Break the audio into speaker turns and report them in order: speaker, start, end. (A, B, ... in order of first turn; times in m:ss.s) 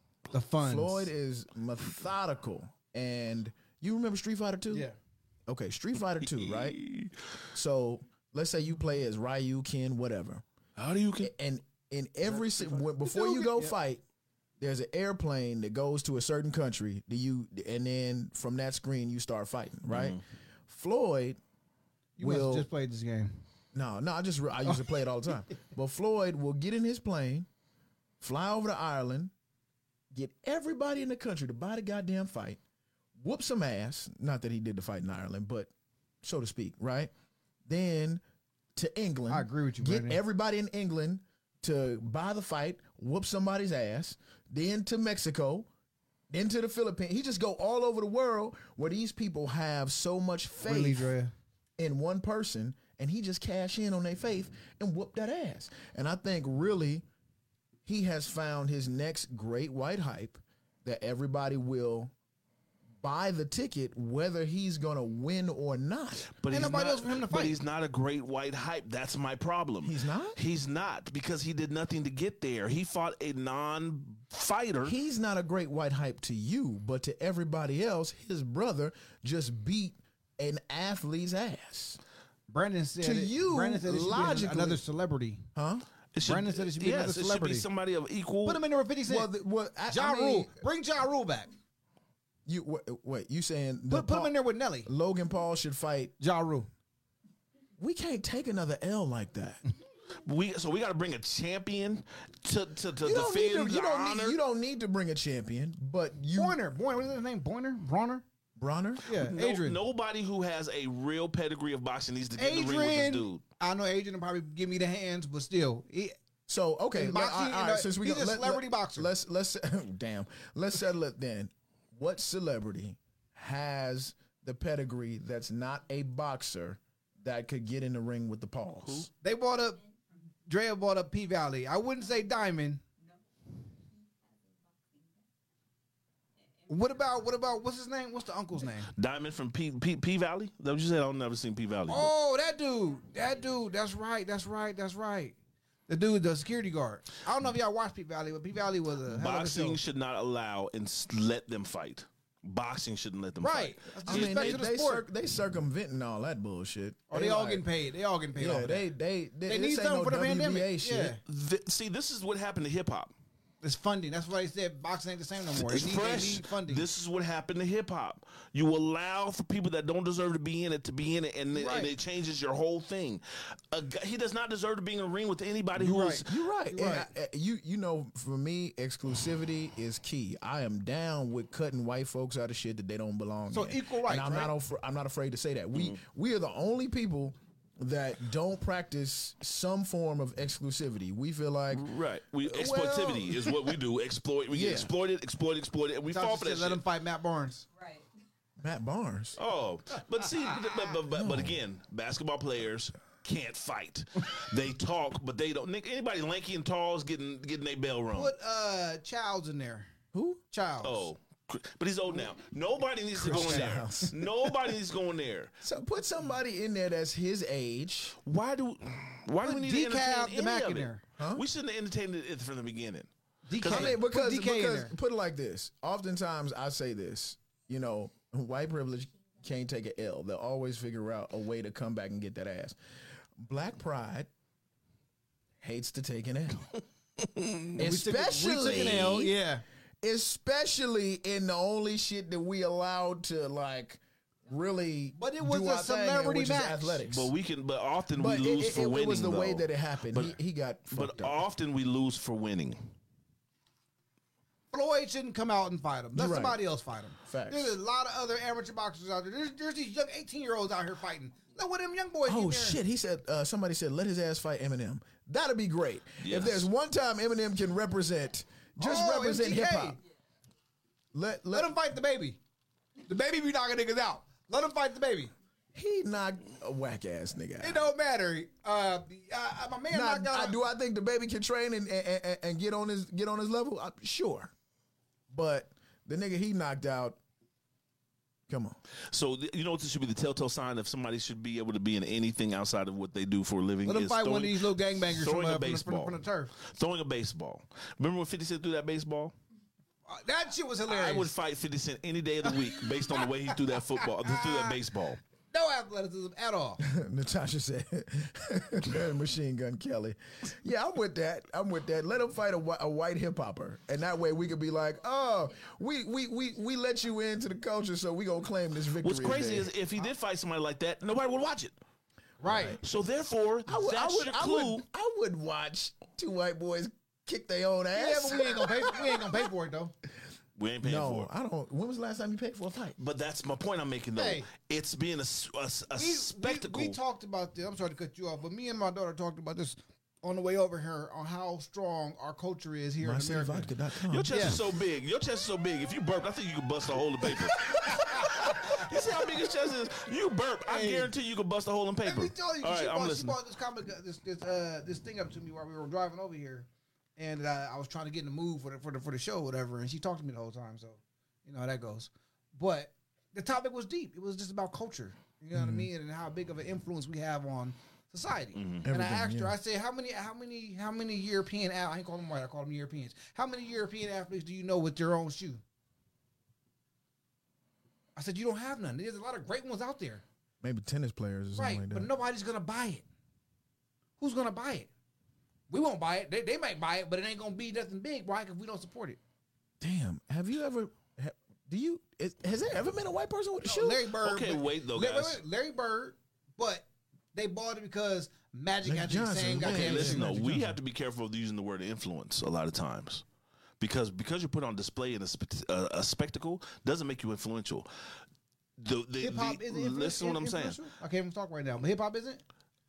0:00.3-0:01.1 A
0:00.6-0:04.9 B
0:05.5-0:06.8 B
0:06.2-0:07.2 C
0:07.5-0:10.4 B
0:10.8-0:11.3 C
0:11.2-0:14.0 B
0:12.2-0:13.7 A
0:14.6-0:21.4 B
0:19.9-0:20.2 C
0:22.2-0:23.3 A
0:22.2-0:22.7 B
0:23.7-0:27.5 B
0:28.2-0:29.3 B
0:30.1-0:32.6 B
0:33.2-0:35.7 B
0:36.2-0:37.1 B
0:37.7-0:38.2 B
0:38.8-0:45.7 B
0:39.3-0:40.2 A
0:46.3-0:51.1 B
0:50.6-0:51.3 A
0:51.8-0:57.0 B
0:57.8-1:02.1 B
1:03.0-1:06.3 B
1:06.3-1:15.0 C
1:06.5-1:07.6 A
1:09.8-1:10.4 B
1:14.8-1:22.0 B
1:22.5-1:25.5 A
1:23.0-1:24.8 B
1:25.6-1:25.9 B
1:26.1-1:28.6 C
1:26.2-1:27.7 A
1:28.4-1:29.3 A
1:29.1-1:30.6 B
1:29.9-1:31.5 A
1:32.5-1:36.2 B
1:33.9-1:34.9 A
1:36.2-1:36.7 A
1:37.8-1:39.6 B
1:40.2-1:44.4 C
1:43.0-1:46.6 B
1:46.4-1:48.2 A
1:48.6-1:49.0 B
1:49.1-1:49.8 A
1:49.1-1:53.4 C
1:52.4-1:56.2 A
1:56.5-2:09.1 B
1:56.9-1:59.1 A
2:08.8-2:09.1 C
2:09.2-2:09.8 A
2:10.5-2:12.8 A
2:16.7-2:18.9 A
2:18.9-2:22.1 C
2:21.9-2:25.4 A
2:25.9-2:29.8 A
2:29.1-2:34.7 C
2:33.4-2:35.1 A
2:34.1-2:37.7 B
2:37.1-2:38.9 A
2:38.4-2:41.2 B
2:39.5-2:41.2 A
2:41.2-2:43.1 C
2:43.6-2:46.9 A
2:45.6-2:56.3 C
2:51.6-2:51.9 A
2:55.8-2:57.1 A
2:56.2-3:11.9 B
3:03.5-3:04.5 A
3:11.7-3:16.8 C
3:12.4-3:13.8 B
3:14.5-3:14.9 B
3:16.1-3:17.7 A
3:18.6-3:19.4 B
3:19.4-3:28.3 C
3:21.1-3:21.6 B
3:28.1-3:29.9 A
3:30.1-3:30.4 B
3:30.5-3:31.1 A
3:30.8-3:35.5 C
3:33.2-3:34.7 B
3:33.3-3:33.7 A
3:35.6-3:38.2 B
3:38.3-3:44.0 C
3:39.4-3:41.0 A
3:41.2-3:41.4 B
3:43.5-3:44.9 A
3:43.6-3:52.8 B
3:53.4-3:54.3 B
3:55.6-3:56.7 B
3:57.2-3:57.8 C
3:57.8-3:59.3 B
3:57.8-3:59.6 A
4:00.0-4:07.3 B
4:05.2-4:07.0 A
4:07.1-4:10.4 C
4:08.2-4:11.4 B
4:10.9-4:12.9 C
4:14.7-4:22.8 A
4:16.2-4:16.6 B
4:17.2-4:17.8 B
4:22.3-4:30.0 B
4:26.2-4:26.7 C
4:28.8-4:30.0 A
4:31.1-4:31.7 B
4:31.5-4:32.4 A
4:33.1-4:35.3 A
4:35.7-4:37.9 B
4:37.6-4:40.6 A
4:39.9-4:44.5 B
4:45.3-4:47.2 B
4:48.5-4:48.8 B
4:49.1-4:59.3 C
4:53.9-4:56.5 A
5:00.1-5:01.3 A
5:00.9-5:05.2 C
5:02.5-5:04.8 A
5:05.5-5:06.8 A
5:06.8-5:19.7 B
5:19.0-5:21.8 C
5:22.4-5:22.8 A
5:22.4-5:22.8 B
5:22.8-5:24.8 C
5:23.7-5:29.4 B
5:27.9-5:29.9 A
5:30.6-5:31.3 C
5:30.8-5:33.0 B
5:33.0-5:37.0 C
5:34.2-5:34.5 A
5:36.0-5:43.7 A
5:43.0-5:44.8 B
5:44.1-5:53.4 C
5:44.3-5:44.6 A
5:48.0-5:48.9 A
5:50.7-5:51.1 A
5:52.0-6:15.6 A
6:05.5-6:05.9 B
6:08.6-6:08.8 C
6:08.8-6:09.6 B
6:18.2-6:20.2 A
6:20.6-6:22.1 B
6:21.6-6:23.0 A
6:24.2-6:24.9 A
6:25.7-6:29.2 A
6:29.8-6:34.1 B
6:33.6-6:40.4 A
6:34.2-6:35.4 C
6:38.8-6:40.8 B
6:39.6-6:43.2 C
6:43.8-6:47.9 C
6:48.8-6:50.8 C
6:49.2-6:52.4 A